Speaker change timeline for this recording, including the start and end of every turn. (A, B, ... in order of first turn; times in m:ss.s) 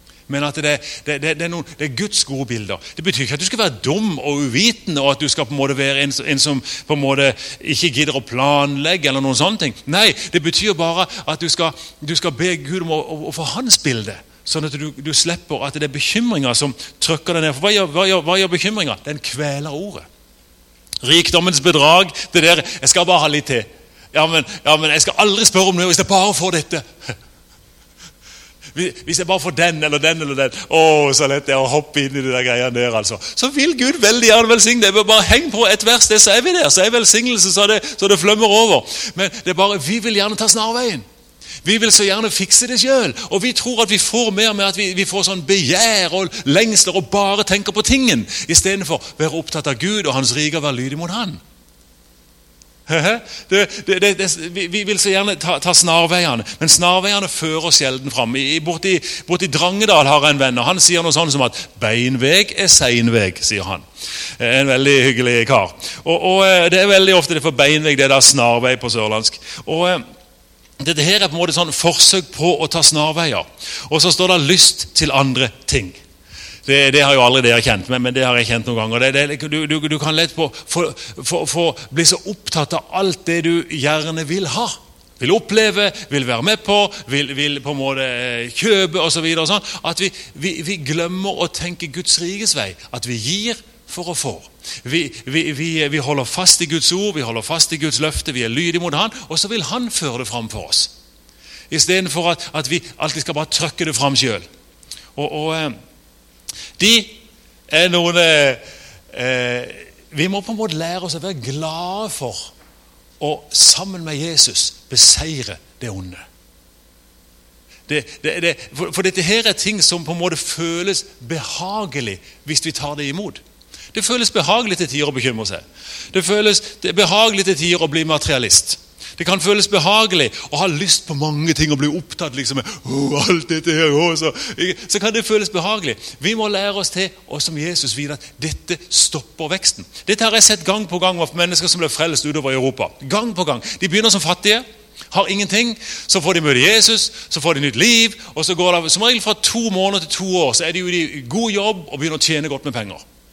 0:00.3-0:20.0 A
0:21.0-0:27.1 A
0:28.7-0:41.0 A
0:41.6-0:51.4 A
0:52.9-1:03.8 A
1:04.4-1:10.0 A
1:10.8-1:16.0 A
1:16.6-1:40.9 A
1:41.7-1:44.4 A
1:45.2-1:45.7 A
1:46.8-1:48.6 A
1:49.1-1:52.5 A
1:53.2-1:56.2 A
1:57.9-2:03.4 A
2:03.9-2:33.0 A